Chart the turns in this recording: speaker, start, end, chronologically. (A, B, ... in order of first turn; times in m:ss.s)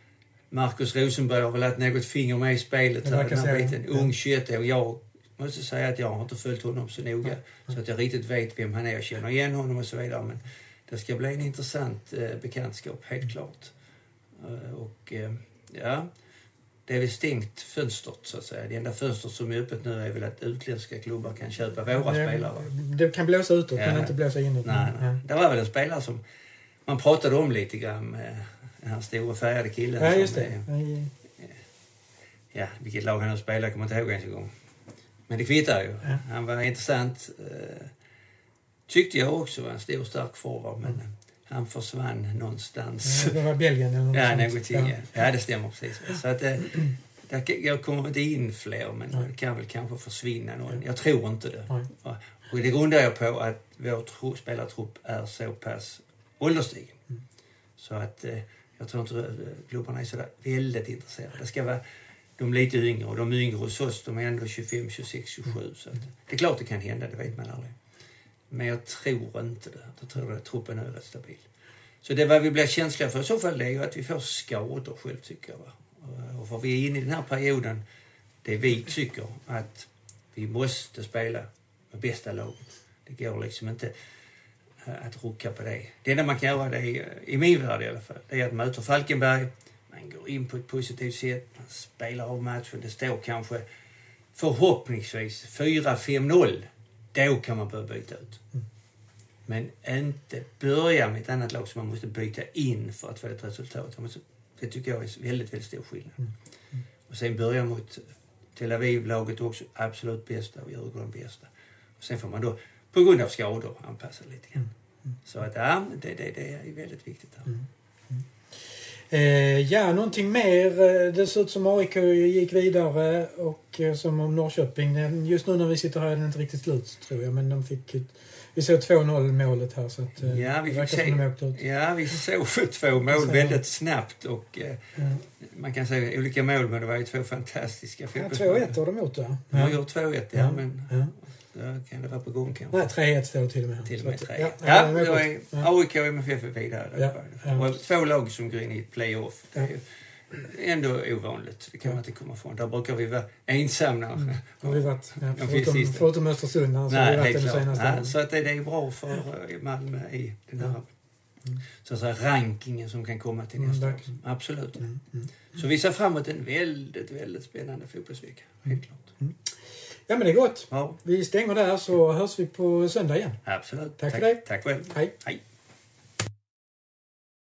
0:00.5-0:13.7 A
0:03.0-0:03.8 B
0:14.4-0:16.1 A
0:16.9-0:22.7 A
0:22.0-0:25.2 B
0:23.7-0:26.2 A
0:26.8-0:30.6 A
0:30.0-0:31.1 B
0:32.5-0:34.5 A
0:35.3-0:37.9 A
0:38.9-0:43.4 A
0:43.0-0:44.9 B
0:44.1-0:57.0 A
0:57.8-1:01.8 A
1:02.4-1:07.7 A
1:08.5-1:11.4 A
1:12.0-1:17.8 A
1:18.4-1:23.9 A
1:24.8-1:33.6 A
1:34.3-1:38.4 A
1:39.5-1:46.2 A
1:47.1-1:48.0 A
1:48.6-1:54.7 A
1:55.2-1:57.5 A
1:59.1-2:11.6 B
2:10.2-2:14.8 A
2:13.1-2:13.6 B
2:15.0-2:15.2 B
2:15.4-2:18.8 A
2:18.1-2:19.8 B
2:19.5-2:22.9 A
2:20.3-2:21.1 B
2:22.7-2:25.7 B
2:23.8-2:36.1 A
2:27.0-2:27.7 B
2:34.6-2:38.1 B
2:36.9-2:40.9 A
2:41.8-2:44.8 A
2:43.6-2:44.1 B
2:44.8-2:45.2 B
2:45.5-2:49.1 A
2:50.1-2:53.4 B
2:50.7-2:51.0 A
2:53.4-2:55.4 A
2:54.0-2:55.1 B